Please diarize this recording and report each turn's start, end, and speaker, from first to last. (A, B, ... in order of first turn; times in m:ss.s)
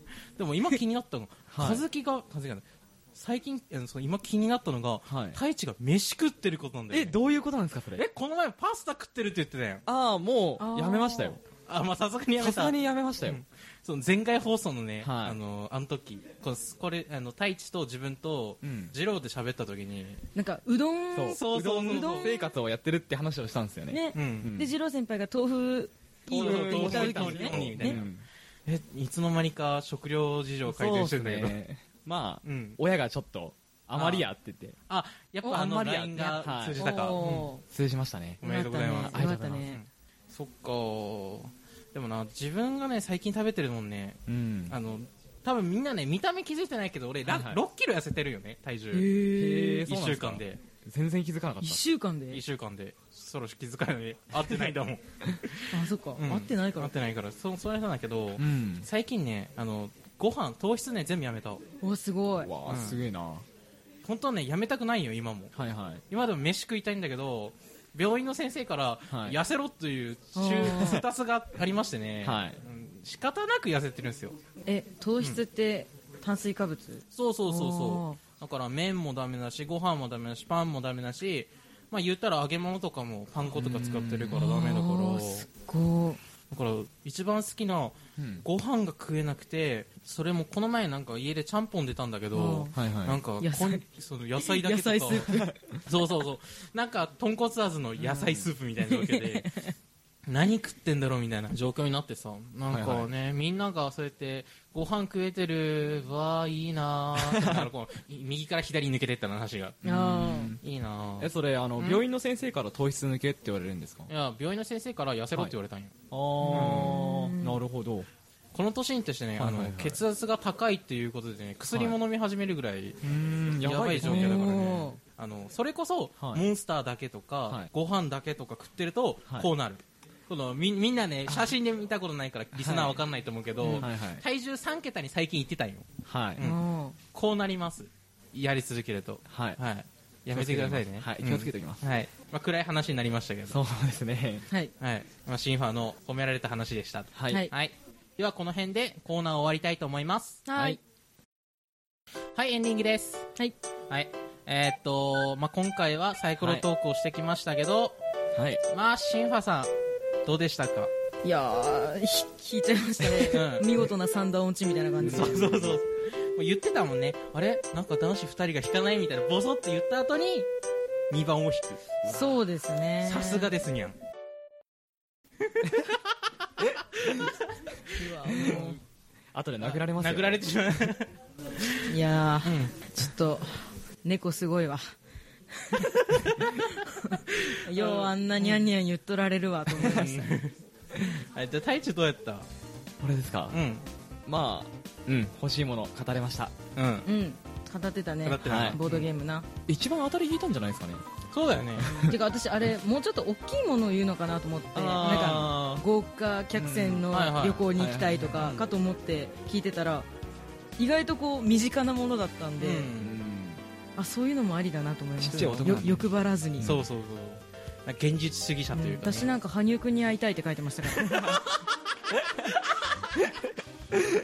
0:00.4-0:07.2 A
0:01.5-0:01.8 B
0:05.1-0:05.4 B
0:06.9-0:08.1 B
0:07.9-0:09.8 A
0:09.8-0:11.4 B
0:10.6-0:11.4 C
0:11.6-0:20.2 A
0:12.4-0:13.4 B
0:15.0-0:15.4 B
0:18.6-0:18.9 B
0:20.3-0:22.4 C
0:21.1-0:24.7 B
0:21.2-0:22.3 A
0:23.9-0:28.0 C
0:24.1-0:24.5 A
0:26.3-0:28.2 B
0:26.3-0:28.0 A
0:28.6-0:31.6 A
0:30.7-0:34.8 B
0:32.4-0:32.8 A
0:33.9-0:34.3 A
0:34.9-0:37.5 A
0:35.4-0:35.7 C
0:35.5-0:37.1 B
0:36.7-0:37.6 C
0:37.6-0:39.6 B
0:38.4-0:49.1 A
0:38.4-0:39.8 C
0:44.3-0:44.8 B
0:47.2-0:47.6 B
0:48.9-0:49.8 C
0:49.4-0:51.8 B
0:49.8-0:50.6 A
0:51.6-0:52.4 C
0:52.3-1:01.6 A
0:55.7-0:56.9 C
0:58.4-0:58.9 B
1:01.8-1:02.5 C
1:02.4-1:03.4 B
1:02.6-1:03.0 A
1:04.0-1:05.5 A
1:05.5-1:06.0 B
1:06.1-1:14.4 A
1:09.1-1:09.4 B
1:10.3-1:11.0 C
1:10.6-1:11.0 B
1:12.2-1:12.6 B
1:14.6-1:18.2 C
1:17.1-1:25.5 A
1:23.5-1:24.4 B
1:24.3-1:26.2 C
1:26.5-1:39.5 A
1:28.2-1:28.4 B
1:32.3-1:32.8 C
1:32.7-1:33.2 B
1:33.4-1:33.8 C
1:34.4-1:35.6 C
1:35.3-1:35.7 B
1:38.1-1:38.4 B
1:38.8-1:39.7 C
1:40.2-1:49.8 A
1:42.7-1:43.1 B
1:47.2-1:47.7 B
1:49.8-1:50.6 C
1:49.8-1:50.6 B
1:50.6-1:52.0 A
1:51.2-1:54.1 B
1:54.1-1:55.9 A
1:56.1-1:58.1 B
1:56.4-1:57.6 C
1:56.5-1:56.9 A
1:58.5-2:03.0 A
1:59.4-2:00.0 B
2:01.7-2:02.0 B
2:03.0-2:04.7 B
2:03.6-2:23.6 A
2:04.0-2:05.0 C
2:06.2-2:06.4 B
2:12.5-2:13.0 B
2:13.6-2:14.2 B
2:16.0-2:16.4 B
2:16.4-2:17.0 C
2:19.3-2:19.6 B
2:20.3-2:21.8 B
2:23.5-2:24.5 B
2:24.8-2:30.4 A
2:27.1-2:27.5 B
2:30.4-2:30.8 C
2:32.3-2:33.3 A
2:33.9-2:38.0 A
2:36.4-2:36.6 B
2:38.4-2:38.6 B
2:38.7-2:39.7 A
2:40.2-2:40.9 A
2:41.2-2:45.5 C
2:43.1-2:43.7 A
2:45.0-2:45.8 B
2:45.0-2:50.5 A
2:51.1-2:52.4 A
2:52.0-2:53.5 C
2:53.0-2:54.0 A
2:55.5-2:58.8 A
2:57.9-2:58.8 C
2:58.4-2:58.6 B
2:59.3-3:00.5 B
2:59.6-3:02.8 A
3:01.8-3:04.8 C
3:05.6-3:10.4 C
3:07.3-3:08.6 A
3:09.7-3:12.5 A
3:13.0-3:13.6 B
3:13.5-3:13.8 A
3:14.2-3:16.5 B
3:16.8-3:17.0 A
3:17.0-3:19.5 C
3:18.2-3:19.1 A
3:18.4-3:18.8 B
3:19.7-3:21.0 B
3:21.3-3:21.9 A
3:21.8-3:22.1 B
3:21.9-3:30.1 C
3:24.7-3:25.8 B
3:25.0-3:25.5 A
3:26.5-3:27.0 B
3:27.1-3:27.7 A
3:27.7-3:28.4 B
3:28.3-3:28.7 A
3:30.8-3:32.9 C
3:32.6-3:33.2 A
3:33.0-3:33.6 B
3:34.0-3:36.8 C
3:35.2-3:36.9 B
3:35.2-3:36.0 A
3:36.6-3:39.3 A
3:38.7-3:41.4 C
3:40.9-3:43.2 A